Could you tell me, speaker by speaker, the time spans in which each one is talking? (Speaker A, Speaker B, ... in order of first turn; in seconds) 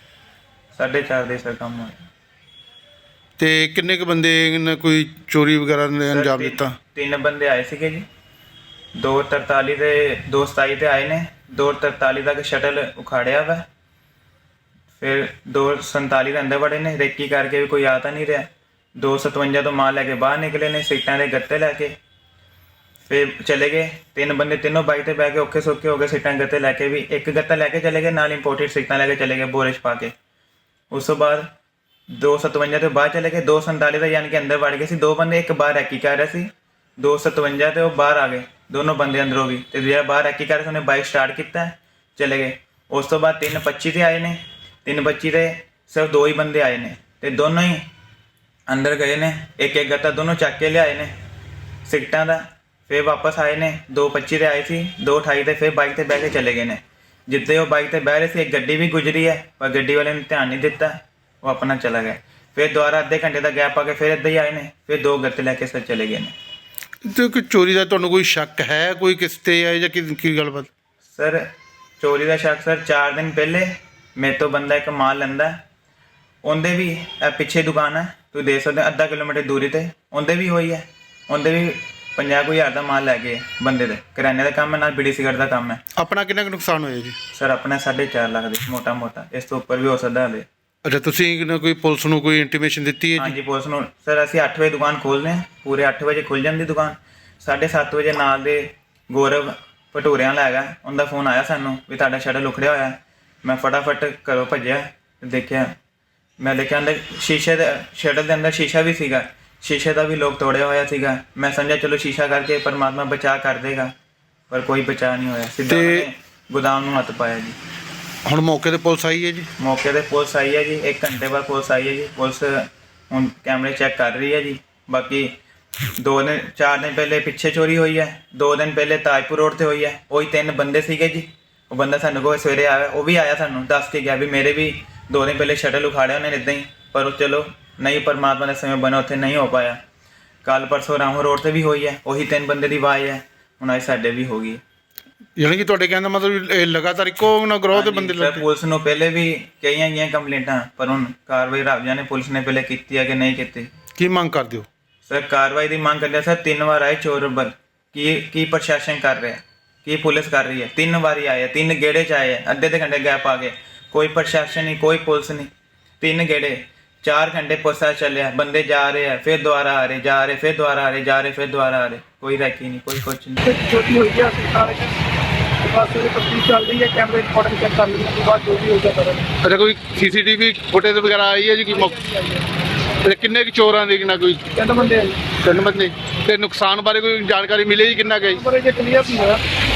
Speaker A: 0.7-2.0, 6.1-8.0, 9.0-13.6, 15.0-21.9, 23.1-30.1, 30.9-31.5, 32.1-47.9, 48.7-51.1, 51.8-66.3, 71.1-71.4, 72.0-75.5, 76.4-85.8, 87.3-90.5, 93.2-105.7, 106.4-113.9, 114.5-117.6, 119.6-125.3, 125.9-139.8, 140.4-144.6, 147.7-153.7, 155.1-173.4
Speaker B: 3.4-6.8, 67.0-70.7, 86.0-87.2, 90.8-93.3, 115.7-116.1, 118.2-119.5, 145.4-148.4, 154.0-154.7, 179.4-182.0, 183.0-184.5, 185.4-188.4
Speaker C: 173.5-174.9, 175.6-179.3, 181.9-182.4, 184.6-185.2, 188.3-189.4